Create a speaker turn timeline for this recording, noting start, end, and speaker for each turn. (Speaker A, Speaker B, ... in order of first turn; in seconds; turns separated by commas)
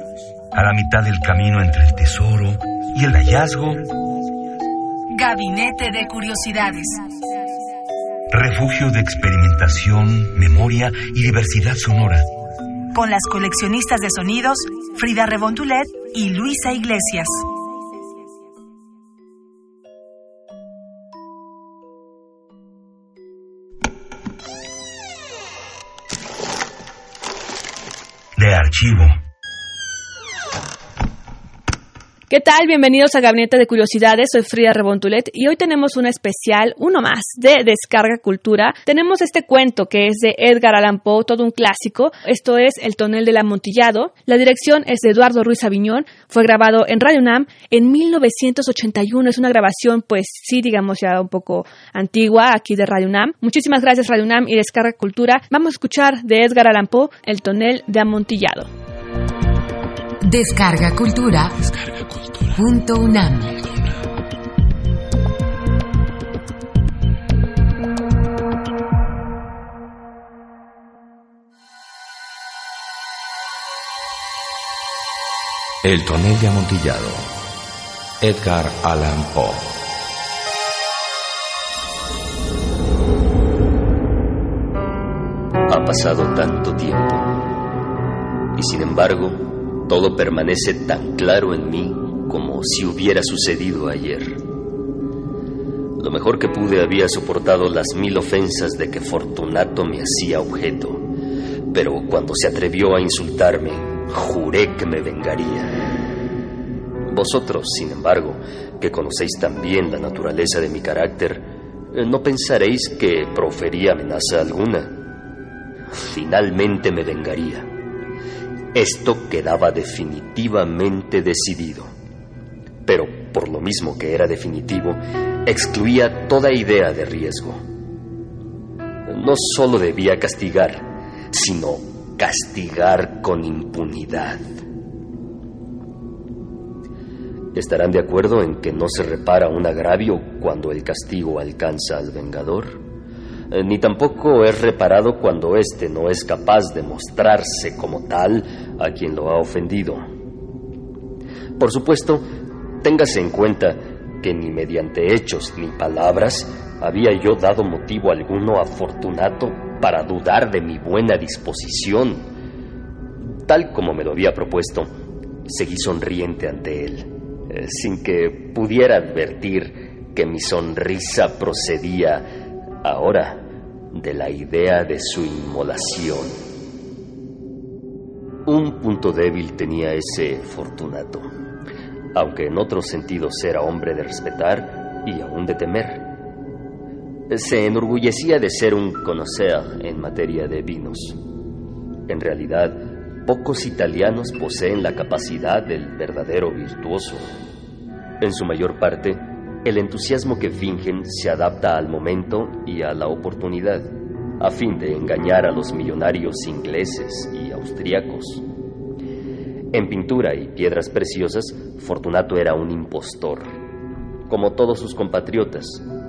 Speaker A: 0.5-3.9, Speaker B: 5.1-7.1, Speaker A: 8.3-12.2, Speaker B: 12.9-17.5, Speaker A: 28.4-29.2, Speaker C: 32.3-58.7, Speaker D: 60.2-61.7, Speaker D: 62.5-63.8, Speaker E: 75.8-77.3, Speaker E: 78.2-79.7, Speaker F: 85.7-87.3, Speaker F: 88.5-94.4, Speaker F: 96.0-101.0, Speaker F: 101.7-105.8, Speaker F: 107.1-114.9, Speaker F: 115.9-117.7, Speaker F: 118.7-121.9, Speaker F: 122.8-127.6, Speaker F: 129.1-134.4, Speaker F: 137.5-142.8, Speaker F: 143.5-150.0, Speaker F: 151.6-152.2, Speaker F: 152.8-162.3, Speaker F: 163.4-164.9, Speaker F: 165.4-172.2, Speaker F: 172.8-176.4, Speaker F: 178.4-181.3, Speaker F: 182.1-186.1, Speaker F: 187.3-191.2, Speaker F: 192.1-197.3, Speaker F: 198.2-208.4, Speaker F: 209.7-213.6, Speaker F: 214.3-215.8